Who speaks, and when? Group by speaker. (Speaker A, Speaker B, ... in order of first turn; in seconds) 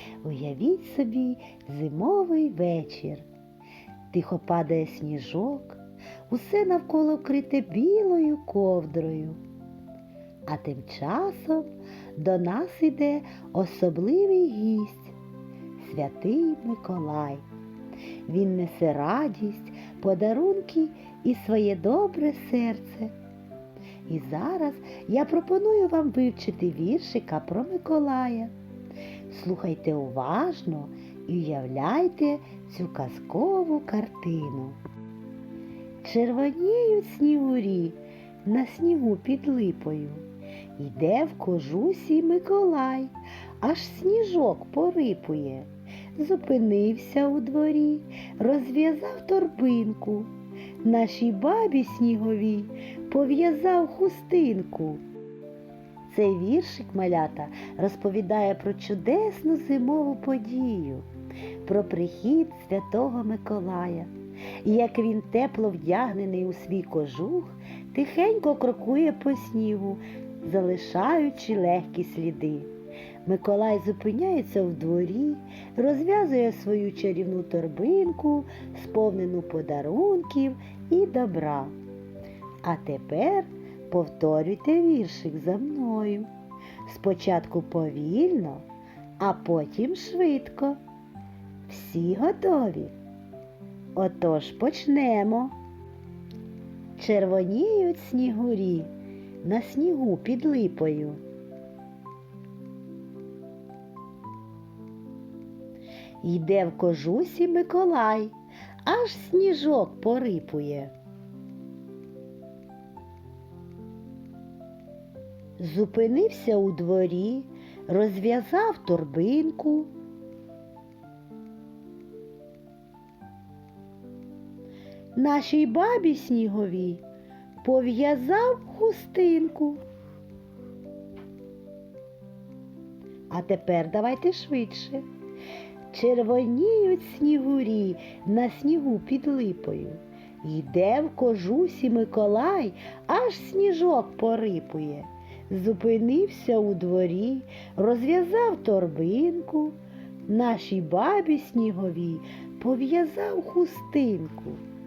Speaker A: 0.2-3.2, 4.1-9.4, 10.5-15.1, 15.8-17.4, 18.3-23.1, 24.1-28.5, 29.3-34.8, 36.0-40.2, 40.8-50.3, 50.8-55.0, 56.1-61.1, 61.6-64.1, 64.6-72.7, 73.2-81.7, 82.6-86.3, 86.8-88.7, 89.2-90.8, 91.7-92.9, 94.0-95.5, 97.0-98.9, 99.4-101.2, 106.2-110.9, 115.6-119.9, 125.2-127.0, 127.6-129.8, 133.3-135.1, 135.9-154.6